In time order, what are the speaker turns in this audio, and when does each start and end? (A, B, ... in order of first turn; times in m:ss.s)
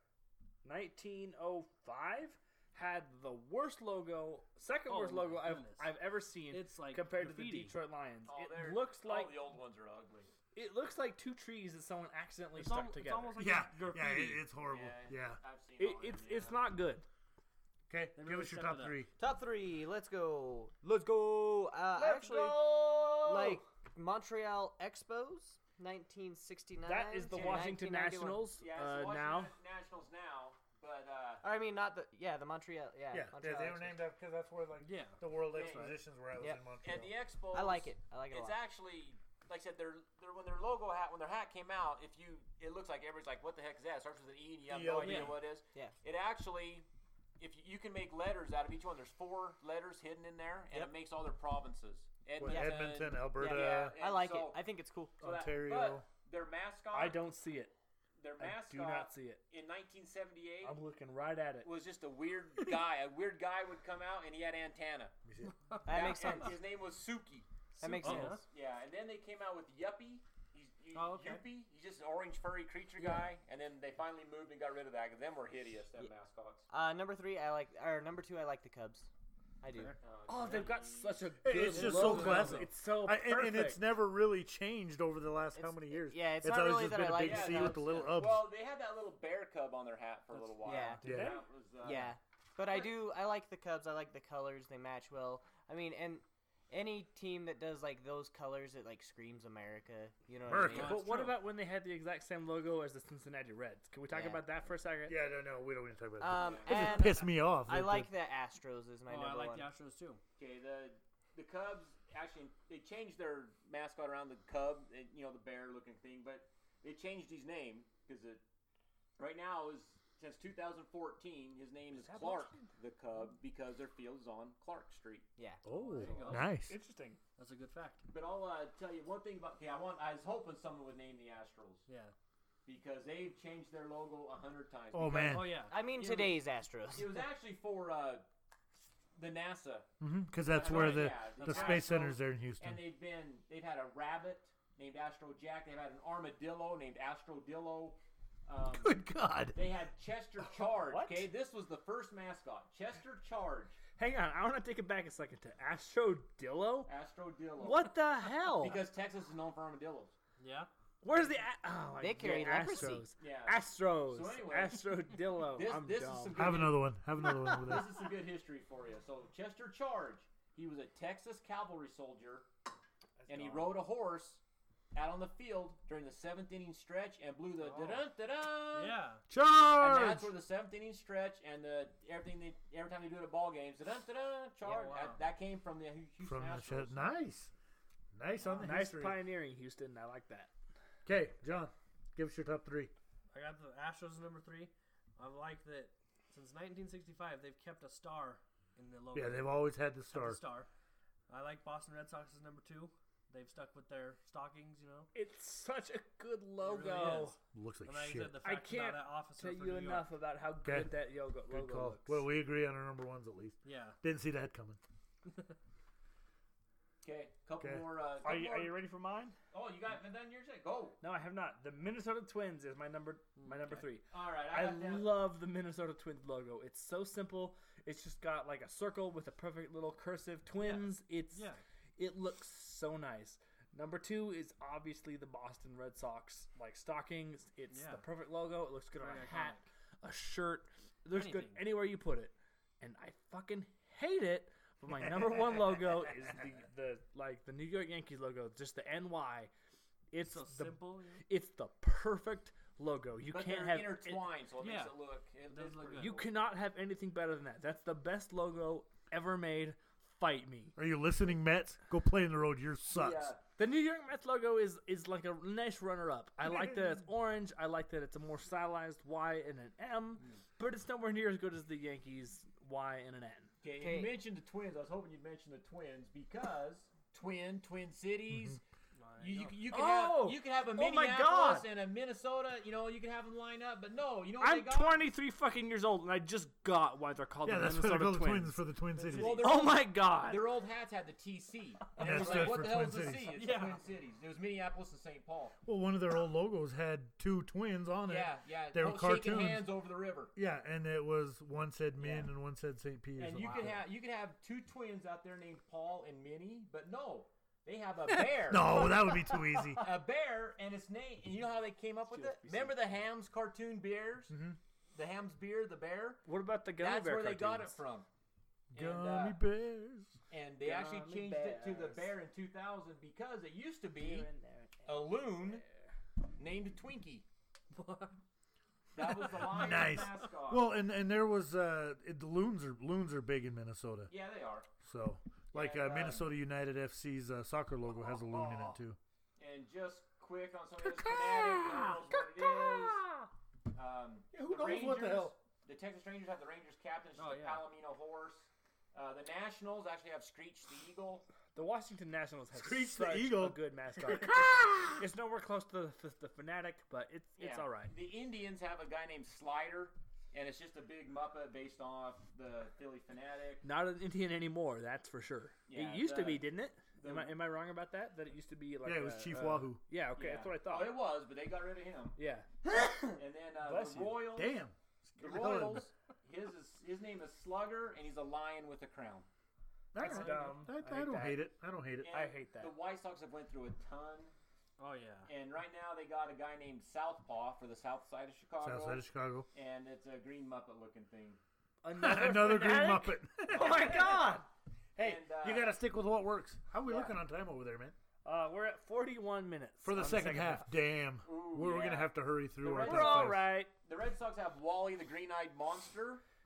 0:00.6-0:09.5 A
0:04.9-0:07.7 B
0:08.3-0:10.3 C
0:10.5-0:13.5 A
0:12.6-0:14.4 B
0:13.4-0:15.4 D
0:14.7-0:16.6 C
0:15.8-0:17.1 A
0:17.9-0:19.1 D
0:18.2-0:19.0 B
0:19.2-0:28.5 E
0:22.0-0:23.6 C
0:26.8-0:29.5 A
0:27.3-0:27.8 C
0:28.6-0:31.4 C
0:31.4-0:34.0 E
0:33.1-0:37.1 D
0:34.8-0:35.9 B
0:35.5-0:36.0 C
0:36.4-0:36.8 E
0:36.8-0:46.9 C
0:37.5-0:38.6 E
0:44.7-0:45.4 D
0:45.0-0:45.4 B
0:47.4-0:54.6 C
0:52.4-0:54.0 D
0:52.4-0:52.8 E
0:54.0-0:55.2 E
0:55.2-0:56.1 D
0:55.2-0:57.2 C
0:56.9-0:57.8 A
0:58.2-1:00.8 C
0:58.4-0:59.4 A
1:00.6-1:01.7 A
1:01.6-1:05.2 C
1:05.2-1:05.6 D
1:05.7-1:06.4 B
1:05.9-1:06.6 E
1:05.9-1:07.5 C
1:07.8-1:08.5 B
1:07.8-1:08.4 E
1:08.0-1:16.7 C
1:10.9-1:11.4 B
1:13.0-1:13.3 E
1:16.7-1:19.1 E
1:19.6-1:20.0 E
1:20.0-1:21.3 C
1:20.3-1:23.9 A
1:21.4-1:28.5 D
1:21.6-1:22.7 B
1:25.6-1:28.2 E
1:27.2-1:32.2 C
1:30.4-1:31.0 B
1:30.6-1:31.1 E
1:31.0-1:31.4 D
1:31.0-1:31.4 A
1:31.8-1:41.1 E
1:40.5-1:41.2 D
1:40.7-1:45.2 A
1:40.8-1:41.3 B
1:44.1-1:44.6 E
1:45.1-1:48.1 D
1:46.2-1:49.7 E
1:46.4-1:47.0 C
1:49.1-1:50.2 B
1:50.4-1:58.4 C
1:59.2-2:05.3 C
2:01.9-2:02.7 A
2:05.4-2:05.6 E
2:05.6-2:06.8 D
2:05.7-2:06.5 B
2:06.0-2:06.4 C
2:06.4-2:07.2 A
2:07.4-2:08.1 B
2:08.1-2:11.8 C
2:11.9-2:12.1 B
2:12.6-2:16.4 C
2:14.9-2:15.7 D
2:15.2-2:15.8 B
2:15.7-2:17.2 E
2:16.9-2:18.3 C
2:19.2-2:19.9 C
2:20.0-2:22.8 D
2:20.5-2:29.0 C
2:20.6-2:22.0 B
2:28.8-2:29.6 D
2:29.5-2:33.8 C
2:30.6-2:31.3 A
2:34.0-2:36.9 A
2:36.9-2:38.0 C
2:37.6-2:38.9 A
2:38.5-2:40.1 C
2:40.4-2:40.7 B
2:41.0-2:46.6 A
2:42.0-2:43.1 E
2:43.2-2:52.5 C
2:46.3-2:48.1 D
2:53.2-2:53.7 D
2:53.3-2:54.4 C
2:54.9-2:59.0 C
2:57.6-2:58.1 B
2:58.7-2:59.2 B
2:59.3-3:00.3 D
2:59.8-3:07.0 C
3:04.6-3:05.2 B
3:06.2-3:07.5 D
3:08.1-3:09.2 D
3:08.4-3:08.7 B
3:08.6-3:10.5 A
3:11.1-3:12.9 D
3:13.3-3:19.6 B
3:19.1-3:20.4 D
3:20.1-3:20.7 B
3:21.3-3:25.1 B
3:25.1-3:27.4 A
3:26.6-3:30.1 B
3:27.5-3:28.4 D
3:28.4-3:32.2 A
3:30.6-3:34.8 D
3:33.6-3:34.0 B
3:35.2-3:35.5 B
3:37.0-3:38.8 C
3:37.6-3:37.9 D
3:38.2-3:39.4 A
3:39.5-3:41.0 C
3:41.0-4:09.5 A
3:43.4-3:43.9 B
3:44.1-3:45.1 C
3:50.6-3:51.6 B
3:57.7-3:58.0 B
3:59.0-3:59.7 B
4:01.1-4:01.6 B
4:05.0-4:05.8 D
4:10.1-4:14.3 A
4:10.2-4:11.2 B
4:13.3-4:16.3 C
4:14.6-4:16.2 B
4:15.9-4:20.8 A
4:20.8-4:23.4 D
4:22.9-4:23.4 C
4:23.6-4:33.5 A
4:33.6-4:38.6 C
4:33.8-4:34.2 E
4:38.3-4:38.6 D
4:39.0-4:39.6 B
4:39.2-4:45.0 C
4:39.7-4:41.7 A
4:44.4-4:50.5 A
4:47.4-4:49.5 D
4:49.0-4:55.6 C
4:52.0-4:53.3 D
4:52.0-4:52.7 A
4:53.3-4:53.8 B
4:55.6-4:59.7 D
4:58.1-5:00.3 C
5:00.4-5:03.8 D
5:02.0-5:02.3 C
5:03.2-5:08.8 C
5:08.1-5:09.8 A
5:08.5-5:09.9 D
5:09.8-5:14.4 C
5:12.1-5:13.0 A
5:14.3-5:14.6 D
5:15.0-5:16.2 C
5:16.2-5:17.8 A
5:16.8-5:18.1 C
5:18.7-5:19.4 C
5:18.7-5:20.2 D
5:20.3-5:24.3 C
5:20.6-5:22.2 A
5:24.0-5:25.8 A
5:24.8-5:25.6 C
5:26.4-5:27.2 C
5:27.7-5:28.2 B
5:28.9-5:30.7 C
5:29.0-5:30.2 B
5:29.4-5:34.1 D
5:34.1-5:34.7 C
5:34.8-5:39.0 D
5:35.5-5:36.3 C
5:38.1-5:38.8 A
5:39.4-5:43.0 C
5:40.8-5:43.3 A
5:43.7-5:51.3 C
5:44.3-5:45.3 D
5:47.2-5:47.7 B
5:51.5-5:57.9 A
5:52.6-5:55.0 D
5:57.4-6:03.6 C
6:03.6-6:11.1 A
6:05.7-6:06.5 C
6:07.0-6:07.3 C
6:08.8-6:09.8 D
6:09.3-6:12.2 C
6:12.2-6:12.8 A
6:13.1-6:14.6 C
6:13.6-6:14.3 A
6:14.3-6:15.9 D
6:15.2-6:19.3 C
6:19.9-6:22.1 D
6:20.0-6:21.4 A
6:20.0-6:20.8 B
6:22.0-6:24.3 C
6:22.1-6:22.8 A
6:24.8-6:25.3 B
6:25.3-6:31.4 C
6:28.6-6:29.5 D
6:31.8-6:34.5 A
6:32.0-6:34.2 D
6:33.5-6:34.2 C
6:35.0-6:38.0 D
6:35.0-6:35.8 C
6:36.8-6:37.2 C
6:38.2-6:40.7 A
6:39.8-6:43.5 D
6:41.2-6:46.2 C
6:42.6-6:43.7 A